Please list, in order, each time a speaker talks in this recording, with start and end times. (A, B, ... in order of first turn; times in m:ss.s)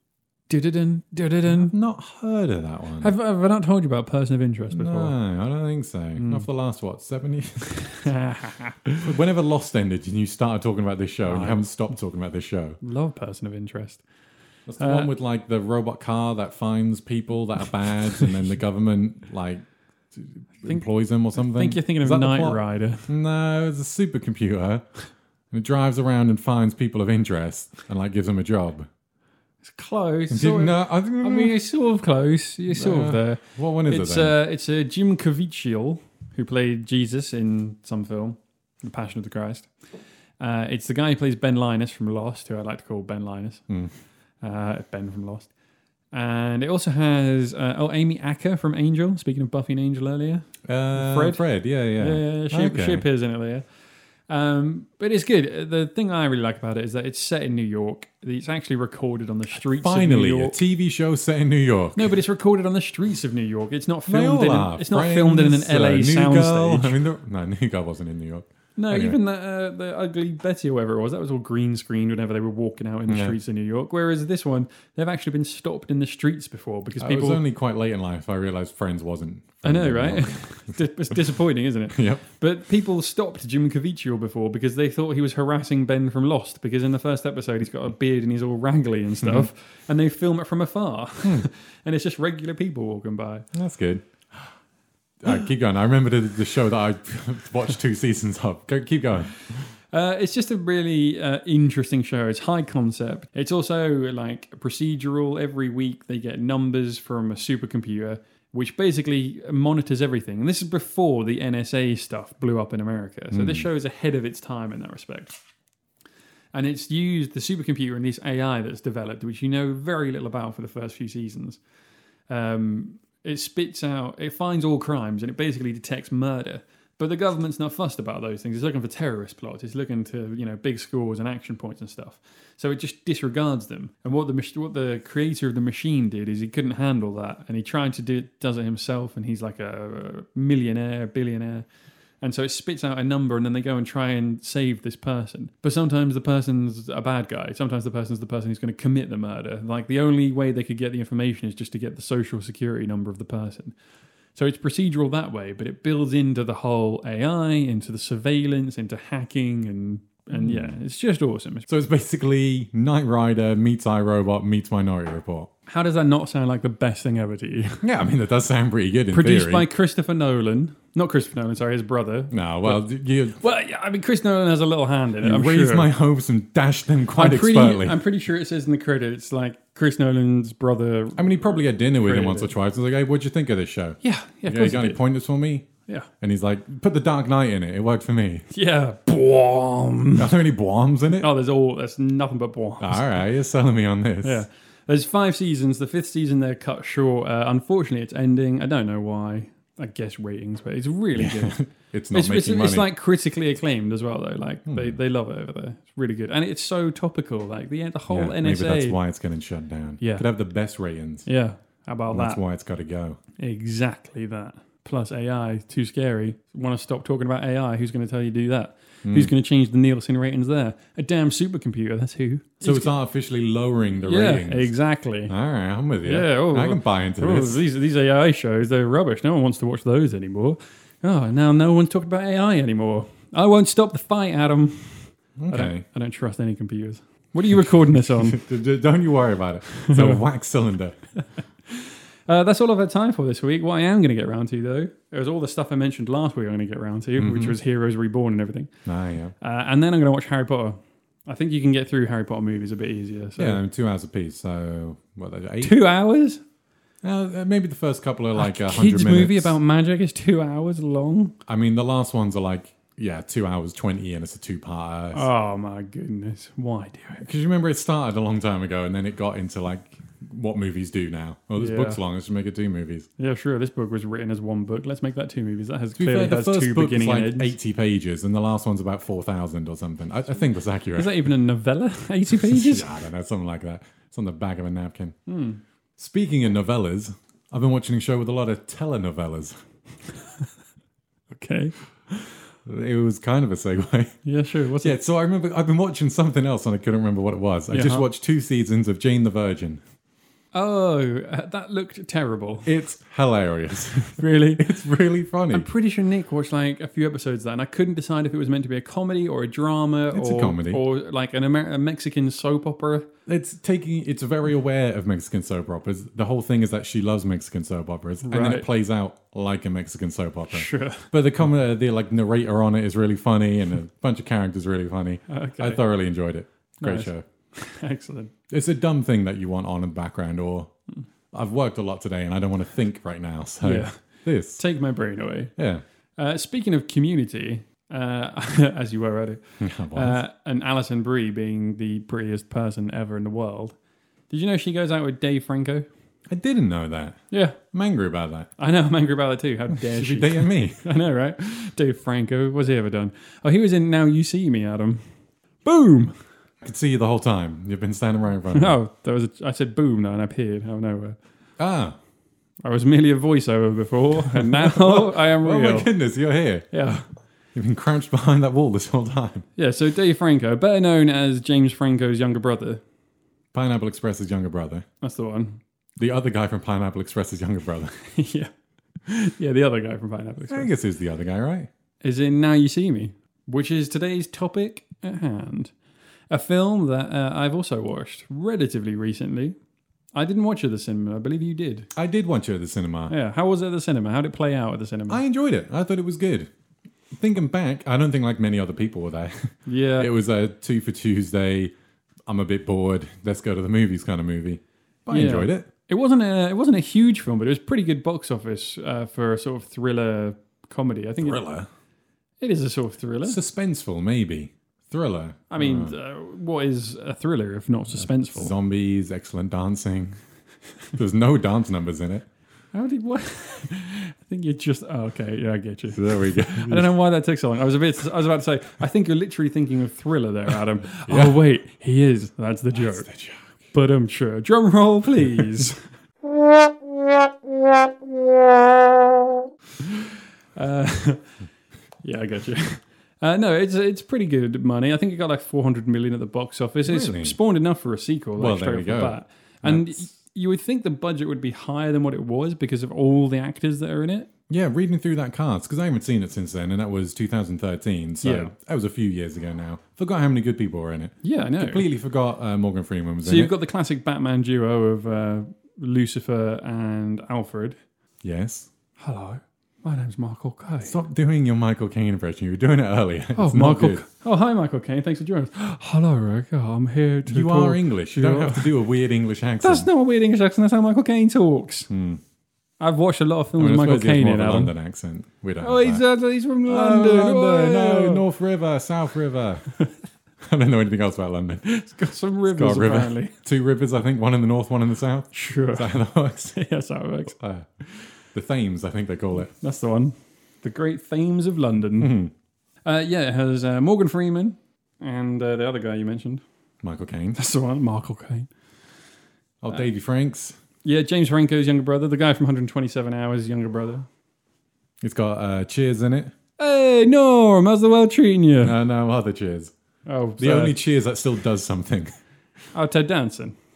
0:00.5-0:01.7 A
0:01.5-0:03.1 B
0:03.0-0:05.1 A
0:04.7-0:08.0 B
0:06.2-0:06.4 A
0:07.8-0:09.0 A
0:09.0-0:12.8 B
0:11.2-0:11.6 A
0:12.8-0:14.0 A
0:14.7-0:24.8 B
0:14.8-0:15.1 A
0:21.4-0:23.1 A
0:25.5-0:28.9 B
0:29.6-0:39.7 A
0:30.3-0:31.6 B
0:32.7-0:34.4 B
0:40.4-0:43.6 A
0:44.4-0:45.5 A
0:46.1-0:51.4 A
0:50.6-0:53.0 B
0:52.0-0:53.7 A
0:54.3-1:00.6 A
0:59.6-1:02.2 B
1:01.9-1:07.0 A
1:04.1-1:09.2 B
1:08.8-1:17.4 A
1:13.1-1:13.4 B
1:17.0-1:21.2 B
1:19.6-1:33.4 A
1:21.9-1:22.2 B
1:29.2-1:29.5 B
1:33.5-1:34.0 B
1:35.2-1:39.6 B
1:39.9-1:55.4 A
1:53.3-1:53.7 B
1:56.5-2:01.6 A
2:02.3-2:21.6 A
2:22.2-2:33.7 A
2:34.3-2:41.7 A
2:40.3-2:40.8 B
2:41.7-2:45.5 B
2:45.7-2:47.8 A
2:47.8-2:49.7 B
2:49.1-2:52.8 A
2:52.3-2:53.4 B
2:53.4-2:55.9 A
2:55.2-2:58.0 B
2:57.2-3:02.5 A
3:01.2-3:05.7 B
3:04.0-3:05.0 A
3:06.2-3:08.4 B
3:08.5-3:10.3 A
3:10.2-3:11.3 B
3:11.2-3:13.2 A
3:12.8-3:14.4 B
3:14.2-3:21.6 A
3:21.1-3:22.9 B
3:22.1-3:29.0 A
3:24.7-3:25.0 B
3:28.1-3:31.3 B
3:30.0-3:30.2 A
3:31.2-3:32.4 A
3:32.1-3:33.2 B
3:33.4-3:42.9 A
3:39.0-3:39.3 B
3:42.6-3:44.7 B
3:44.0-3:45.3 A
3:45.3-3:47.6 B
3:46.0-3:58.4 A
3:55.4-3:55.8 B
3:57.5-4:01.0 B
3:59.8-4:00.2 A
4:01.7-4:08.7 A
4:07.2-4:07.6 B
4:08.8-4:09.3 B
4:09.4-4:13.6 A
4:13.4-4:15.8 B
4:15.6-4:16.4 A
4:17.0-4:19.6 B
4:18.3-4:21.4 A
4:21.5-4:25.3 B
4:25.1-4:27.2 A
4:27.2-4:33.1 B
4:31.6-4:32.0 A
4:33.2-4:37.5 A
4:36.0-4:41.3 B
4:41.0-4:42.9 A
4:42.3-4:45.2 B
4:45.3-4:45.6 A
4:46.0-4:49.6 B
4:51.3-4:52.2 A
4:52.6-4:54.2 B
4:54.2-4:55.0 A
4:54.8-4:59.8 B
4:57.7-4:58.0 A
5:00.5-5:02.7 A
5:02.6-5:05.7 B
5:04.2-5:04.7 A
5:05.5-5:13.1 A
5:10.1-5:10.8 B
5:13.2-5:27.2 B
5:18.2-5:18.7 A
5:20.5-5:21.1 A
5:25.3-5:25.8 A
5:26.8-5:28.3 A
5:28.5-5:30.7 B
5:31.3-5:34.6 B
5:33.6-5:34.0 A
5:34.6-5:35.5 A
5:35.6-5:35.8 B
5:36.2-5:43.8 A
5:39.6-5:40.2 B
5:44.3-5:45.8 A
5:46.3-5:48.5 B
5:47.3-5:47.6 A
5:48.6-5:55.0 A
5:49.7-5:50.8 B
5:55.6-5:56.2 A
5:56.6-5:58.8 B
5:58.5-6:01.2 A
6:01.6-6:02.0 B
6:02.6-6:05.9 A
6:04.3-6:06.7 B
6:06.7-6:07.0 A
6:07.5-6:09.4 B
6:09.6-6:12.8 A
6:13.5-6:14.8 B
6:15.0-6:15.6 A
6:16.0-6:18.0 B
6:18.0-6:18.5 A
6:19.0-6:20.7 A
6:20.5-6:21.7 B
6:22.0-6:25.7 A
6:26.3-6:29.6 A
6:30.1-6:31.9 A
6:31.9-6:33.1 B
6:33.1-6:35.2 A
6:35.1-6:36.5 B
6:37.1-6:41.7 B
6:39.6-6:40.1 A
6:42.2-6:45.7 B
6:45.1-6:51.4 A
6:51.2-6:51.7 B
6:52.4-6:53.4 A
6:53.2-6:55.9 B
6:55.5-6:58.5 A
6:58.0-7:00.2 B
7:00.9-7:02.2 B
7:02.7-7:13.1 A
7:05.9-7:06.9 B
7:11.0-7:11.4 B
7:12.7-7:13.4 B
7:13.7-7:15.8 A
7:20.6-7:21.3 A
7:22.0-7:34.3 A
7:26.8-7:27.4 B
7:28.4-7:30.0 B
7:34.5-7:43.5 B
7:38.2-7:38.5 A
7:41.2-7:41.9 A
7:43.2-7:47.8 A
7:48.2-7:48.7 B
7:49.0-7:50.9 A
7:50.8-7:54.0 B
7:53.4-7:58.8 A
7:57.3-7:59.9 B
7:59.6-8:01.9 A
8:01.9-8:02.2 B
8:02.8-8:04.7 A
8:03.6-8:06.0 B
8:05.6-8:08.2 A
8:06.6-8:09.7 B
8:10.4-8:11.7 B
8:11.6-8:13.3 A
8:12.4-8:16.6 B
8:15.3-8:15.9 A
8:16.5-8:17.4 A
8:17.3-8:19.5 B
8:19.5-8:22.1 A
8:22.0-8:22.3 B
8:22.8-8:26.4 A
8:26.8-8:27.4 B
8:27.3-8:28.5 A
8:29.6-8:30.6 B
8:30.8-8:34.1 A
8:35.0-8:36.3 B
8:36.6-8:38.7 A
8:38.6-8:39.7 B
8:40.0-8:40.8 A
8:40.4-8:42.1 B
8:42.7-8:43.6 A